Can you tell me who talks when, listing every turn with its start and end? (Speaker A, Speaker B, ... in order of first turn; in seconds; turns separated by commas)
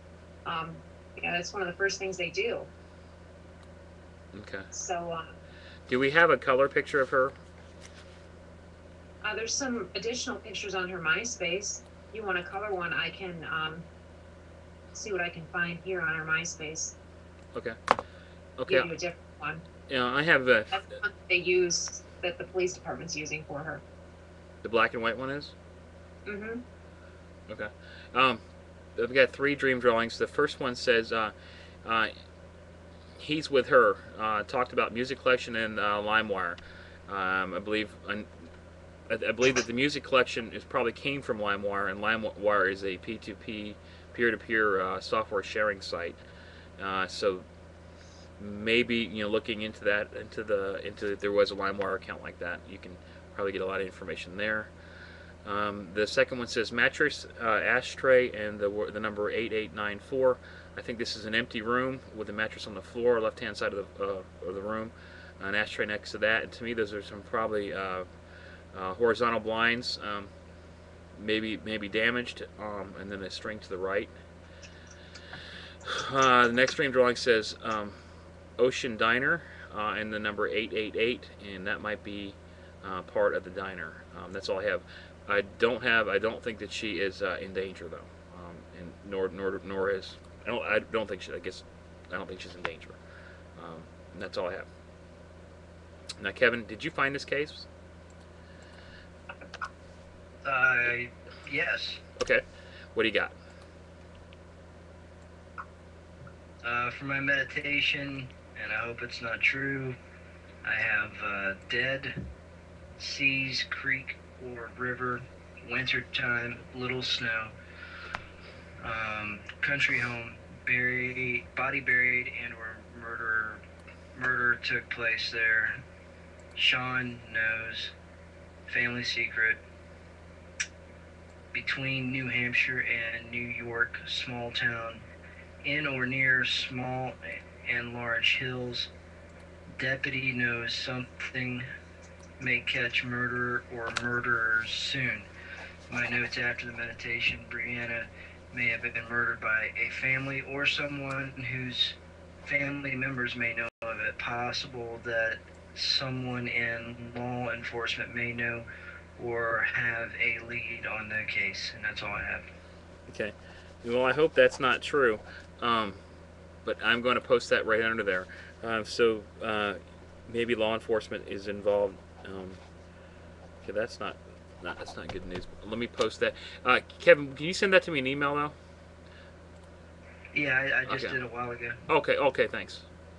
Speaker A: 0.5-2.7, Speaker B: 4.3-4.7, Speaker A: 4.7-5.3, Speaker B: 5.9-7.3, Speaker A: 9.2-13.9, Speaker A: 14.9-16.9, Speaker B: 18.6-18.9, Speaker A: 18.7-19.6, Speaker B: 19.9-20.8, Speaker A: 20.7-23.8, Speaker B: 24.6-25.5, Speaker A: 26.3-26.6, Speaker B: 27.5-28.4, Speaker B: 29.0-32.1, Speaker B: 33.2-38.3, Speaker B: 39.1-46.2, Speaker B: 46.8-47.5, Speaker B: 48.4-54.7, Speaker B: 55.5-68.1, Speaker B: 68.7-70.3, Speaker B: 71.2-74.1, Speaker B: 75.8-78.0, Speaker B: 78.6-93.0, Speaker B: 93.6-94.7, Speaker B: 96.2-97.7, Speaker C: 100.4-102.0, Speaker B: 102.2-103.3, Speaker C: 106.6-110.0, Speaker C: 110.6-112.2, Speaker C: 113.0-117.5, Speaker C: 118.8-123.6, Speaker C: 124.2-125.8, Speaker C: 126.5-127.9, Speaker C: 128.7-129.6, Speaker C: 131.5-135.1, Speaker C: 135.6-138.9, Speaker C: 139.8-141.7, Speaker C: 142.4-145.3, Speaker C: 145.9-158.7, Speaker C: 159.2-162.5, Speaker B: 163.1-166.0, Speaker B: 166.6-172.6, Speaker B: 173.6-178.6, Speaker C: 180.3-181.8, Speaker B: 180.9-181.2, Speaker B: 181.9-182.9